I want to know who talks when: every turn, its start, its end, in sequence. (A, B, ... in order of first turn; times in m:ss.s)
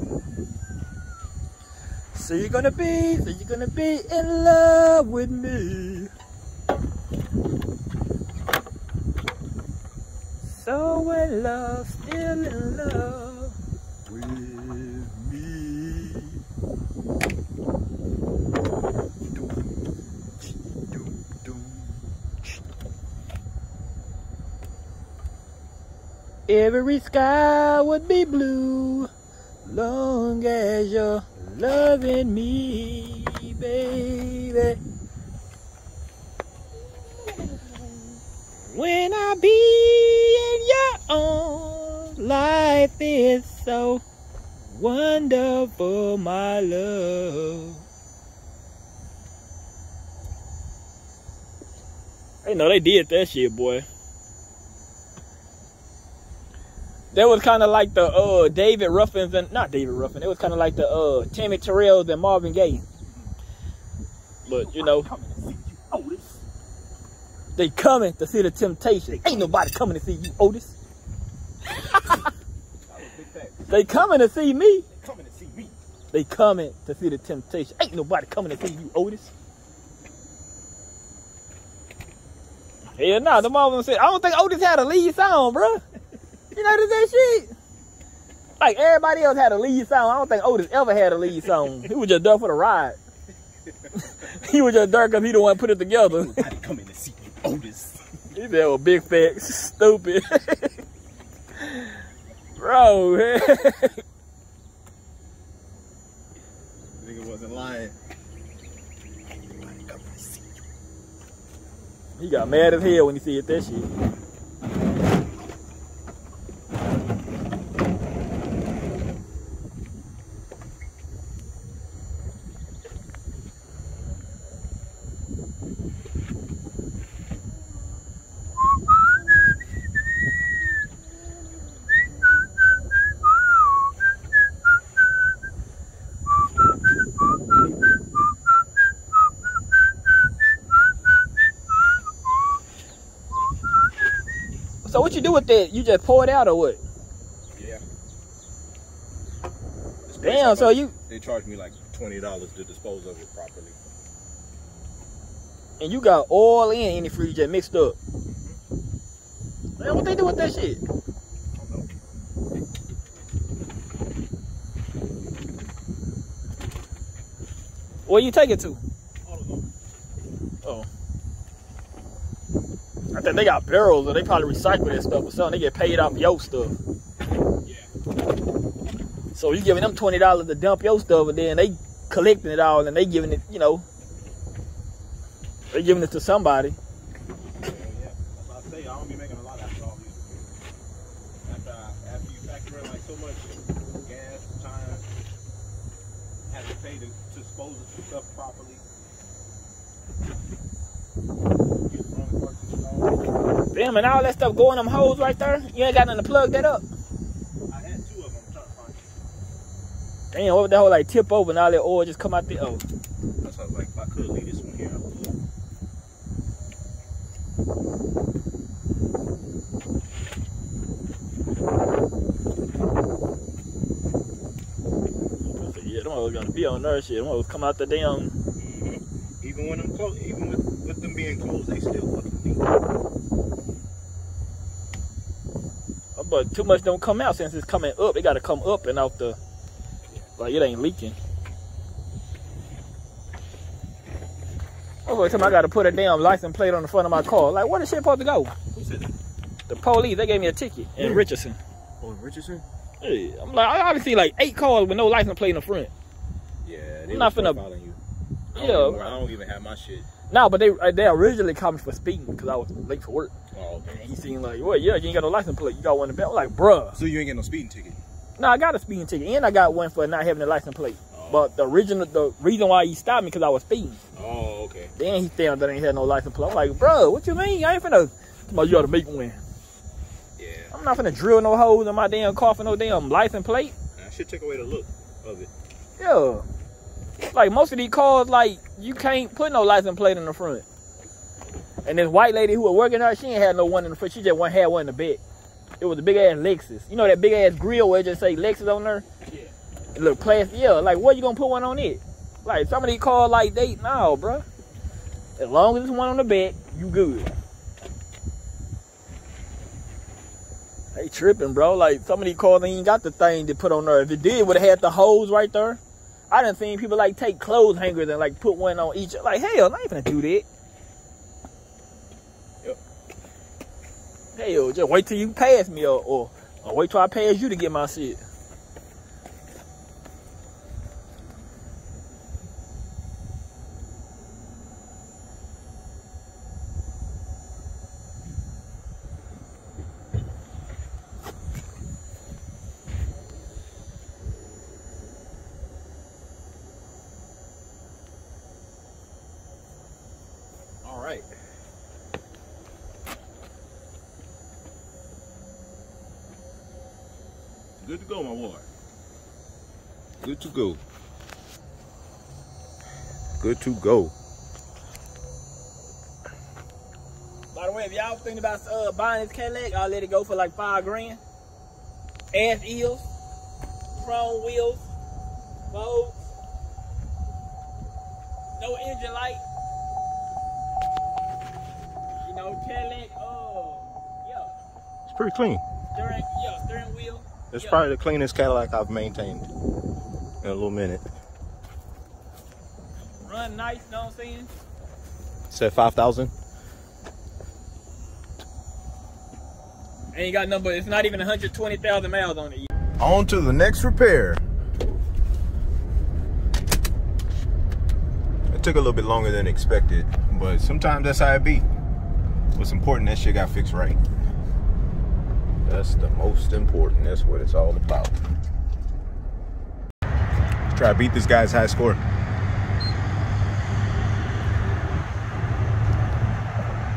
0:02.1-0:06.1 A
0:10.4-0:13.6 A
0:14.1-0:16.4 A
0:19.3-0:19.7 A
0:20.4-0:22.6 A
0:26.5-0:29.1 A
0:29.6-0:34.8 A
0:37.2-0:44.0 A
0:44.7-0:47.8 A
0:52.4-0:53.9 A
0:57.1-1:02.8 A
1:04.4-1:05.1 A
1:04.5-1:06.4 B
1:07.6-1:10.8 A
1:09.1-1:09.5 B
1:11.7-1:12.3 A
1:12.9-1:14.0 B
1:13.7-1:14.9 A
1:14.9-1:15.8 B
1:16.1-1:19.3 A
1:23.0-1:25.8 A
1:26.5-1:27.5 A
1:28.6-1:33.0 A
1:33.7-1:34.3 B
1:34.0-1:36.4 A
1:36.1-1:38.0 B
1:38.3-1:40.8 A
1:41.6-1:42.0 A
1:42.6-1:44.0 A
1:47.0-1:48.0 B
1:49.5-1:50.6 B
1:52.2-1:53.9 A
2:24.8-2:26.8 A
2:27.5-2:27.8 B
2:30.1-2:33.8 B
2:30.2-2:30.9 A
2:35.8-2:38.0 A
2:38.3-2:38.6 B
2:39.8-2:40.8 A
2:41.6-2:41.9 B
2:48.1-2:48.8 A
2:49.2-2:49.7 B
2:53.1-2:56.8 A
2:57.6-2:57.9 B
2:59.3-3:03.8 A
3:05.7-3:06.8 A
3:07.6-3:10.5 B
3:11.4-3:15.1 B
3:16.5-3:18.8 B
3:21.9-3:23.4 B
3:23.7-3:26.9 A
3:27.7-3:29.1 B
3:30.3-3:32.8 A
3:33.4-3:35.4 B
3:45.4-3:48.3 A
3:48.6-3:52.6 B
3:56.2-3:59.4 A
4:00.4-4:01.2 A
4:05.1-4:08.6 A
4:08.7-4:09.1 B
4:09.7-4:11.6 A
4:11.0-4:11.2 B
4:12.0-4:12.6 B
4:13.0-4:15.9 A
4:16.6-4:18.0 B
4:17.1-4:17.6 A
4:18.5-4:20.1 B
4:18.6-4:19.2 A
4:20.3-4:23.3 A
4:23.5-4:24.0 B
4:23.9-4:27.0 A
4:27.0-4:28.0 B
4:28.4-4:34.0 A
4:31.1-4:31.5 B
4:34.2-4:34.9 B
4:35.0-4:39.4 A
4:40.4-4:40.7 B
4:40.7-4:43.8 A
4:44.0-4:45.5 B
4:46.0-4:46.4 A
4:47.3-4:50.7 A
4:51.8-4:55.2 A
4:55.8-4:59.1 A
5:00.0-5:04.5 A
5:05.4-5:07.3 A
5:10.9-5:20.5 A
5:24.4-5:28.2 A
5:50.8-5:51.3 B
5:57.8-5:58.7 B
6:00.2-6:00.8 B
6:03.4-6:04.1 B
6:07.5-6:11.2 A
6:12.3-6:13.1 A
6:14.0-6:14.9 A
6:15.7-6:16.3 A
6:18.6-6:19.4 A
6:22.2-6:24.6 A
6:25.1-6:25.6 B
6:25.9-6:27.8 A
6:27.5-6:29.5 B
6:30.4-6:31.1 B
6:33.2-6:34.5 A
6:35.5-6:36.3 B
6:40.1-6:42.7 A
6:43.0-6:44.4 B
6:48.5-6:51.7 B
6:52.6-6:54.0 B
6:55.6-6:58.1 B
7:00.7-7:02.0 B